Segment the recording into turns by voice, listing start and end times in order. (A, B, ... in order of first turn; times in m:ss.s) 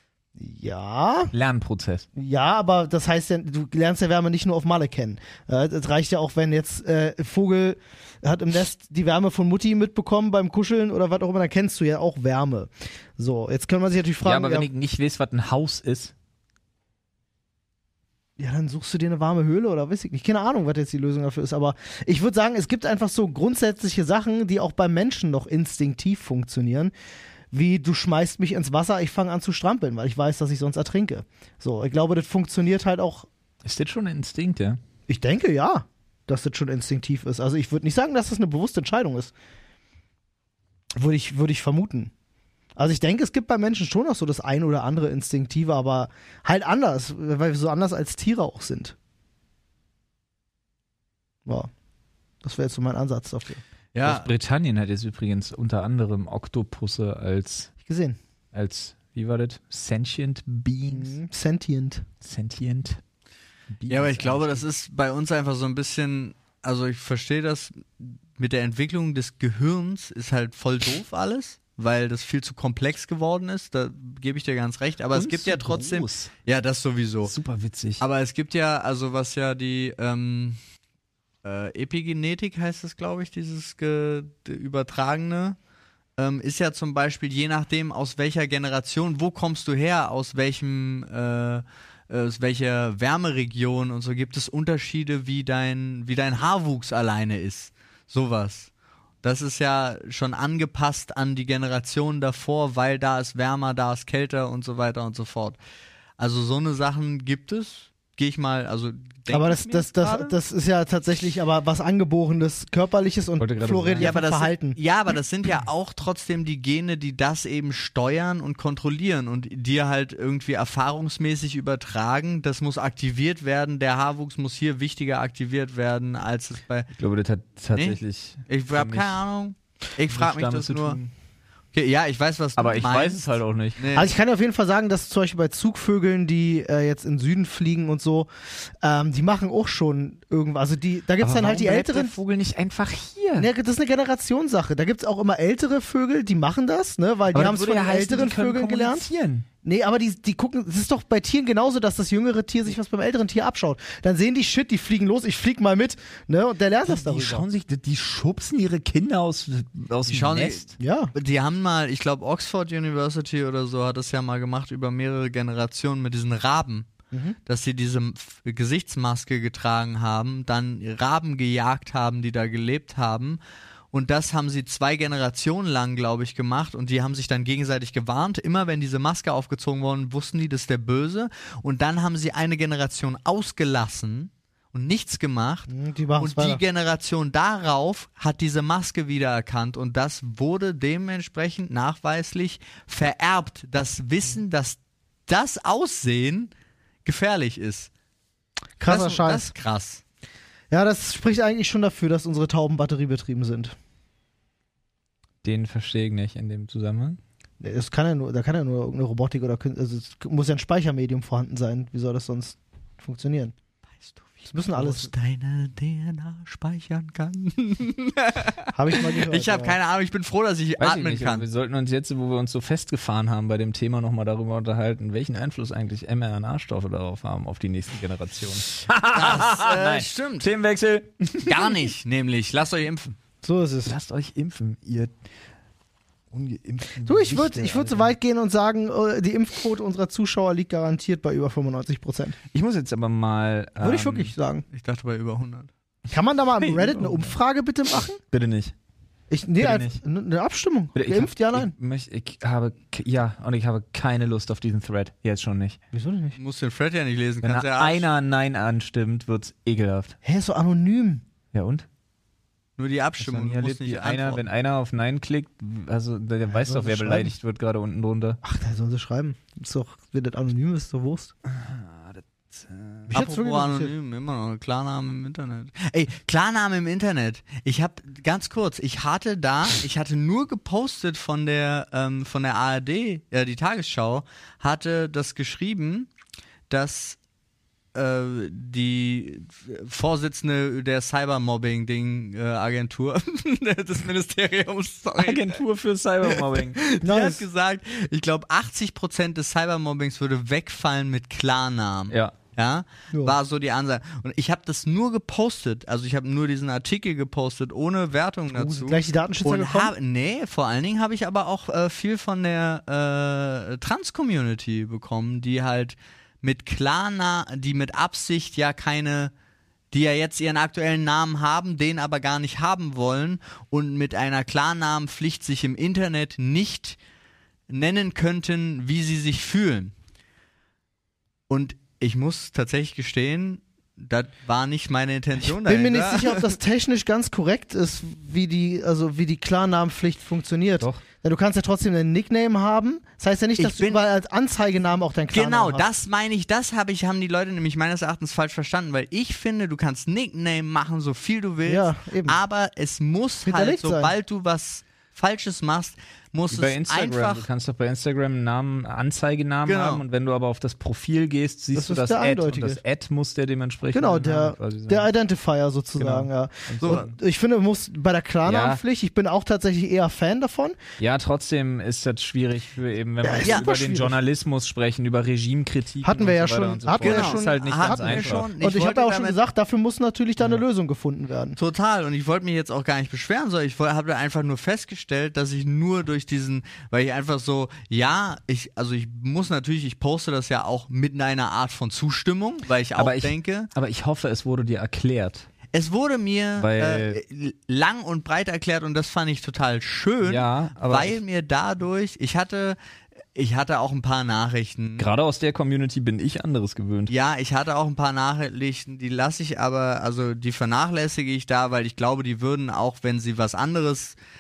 0:00.4-0:01.3 A
0:01.3-0:02.1 B
0:02.2-0:14.7 A
0:14.2-0:16.1 B
0:18.4-0:26.9 A
0:27.5-0:33.3 A
0:33.6-0:34.8 B
0:35.1-0:39.3 A
0:41.0-0:42.1 A
0:42.8-0:49.0 A
0:51.5-0:51.7 A
0:52.4-0:53.6 A
0:54.0-0:54.3 C
0:54.0-0:57.7 B
0:57.8-0:58.2 A
0:58.5-1:01.2 B
1:00.9-1:02.1 A
1:02.2-1:03.0 B
1:03.7-1:04.6 B
1:03.9-1:17.3 C
1:15.1-1:16.3 B
1:17.2-1:18.0 B
1:18.0-1:20.6 C
1:21.4-1:25.6 C
1:26.2-1:38.7 C
1:39.2-1:45.6 C
1:46.2-1:50.4 C
1:49.3-1:54.8 A
1:53.4-1:54.2 B
1:54.0-2:06.9 C
2:07.0-2:09.2 B
2:07.7-2:11.0 C
2:10.1-2:11.1 B
2:11.7-2:13.2 C
2:12.6-2:13.9 B
2:13.8-2:14.1 C
2:13.9-2:18.3 A
2:18.8-2:22.2 A
2:21.2-2:23.5 B
2:23.4-2:29.1 A
2:27.3-2:29.5 B
2:29.6-2:37.5 A
2:36.9-2:40.7 B
2:40.1-2:46.9 C
2:40.8-2:41.1 A
2:47.1-2:47.4 A
2:47.5-2:53.4 C
2:53.9-3:16.5 C
3:05.7-3:06.6 A
3:17.0-3:17.9 C
3:18.8-3:19.5 A
3:18.9-3:20.0 C
3:20.7-3:23.8 A
3:25.4-3:27.2 B
3:27.6-3:33.5 A
3:34.0-3:41.5 C
3:34.5-3:35.1 A
3:38.7-3:39.8 A
3:40.8-3:51.9 B
3:49.1-3:50.5 C
3:51.4-3:53.2 C
3:53.4-3:54.0 A
3:53.8-3:55.1 B
3:56.3-3:58.1 B
3:57.1-4:02.4 A
4:02.5-4:04.3 B
4:03.8-4:04.6 A
4:04.7-4:05.7 C
4:06.1-4:08.2 A
4:06.6-4:07.4 B
4:08.3-4:08.7 B
4:09.3-4:11.7 A
4:09.6-4:10.0 B
4:11.0-4:15.8 B
4:15.9-4:16.4 A
4:16.4-4:18.1 C
4:17.4-4:20.2 B
4:20.2-4:21.2 A
4:21.5-4:21.9 B
4:22.8-4:24.4 C
4:23.2-4:28.4 B
4:26.5-4:27.3 A
4:28.4-4:31.3 A
4:31.5-4:33.2 B
4:33.1-4:33.9 A
4:33.1-4:46.1 C
4:46.7-4:47.2 C
4:47.9-4:55.6 C
4:55.2-4:56.8 B
4:56.3-5:19.3 C
4:57.0-4:57.4 A
5:08.5-5:09.9 A
5:19.9-5:27.0 C
5:27.7-5:29.9 C
5:31.5-5:36.6 C
5:35.6-5:45.9 A
5:43.6-5:44.0 C
5:45.3-5:57.5 C
5:51.7-5:52.4 A
5:53.5-5:54.1 A
5:56.5-6:05.1 B
5:59.7-6:00.0 C
6:01.7-6:02.8 A
6:03.9-6:10.8 A
6:06.0-6:07.1 B
6:06.8-6:07.1 C
6:08.4-6:08.8 B
6:11.0-6:18.5 B
6:13.2-6:14.2 A
6:16.0-6:21.6 A
6:17.0-6:19.4 C
6:21.6-6:33.7 C
6:33.0-6:35.5 B
6:35.7-6:42.8 C
6:36.6-6:37.2 B
6:40.2-6:41.2 B
6:43.4-6:45.1 C
6:45.0-6:47.1 B
6:47.1-6:54.2 C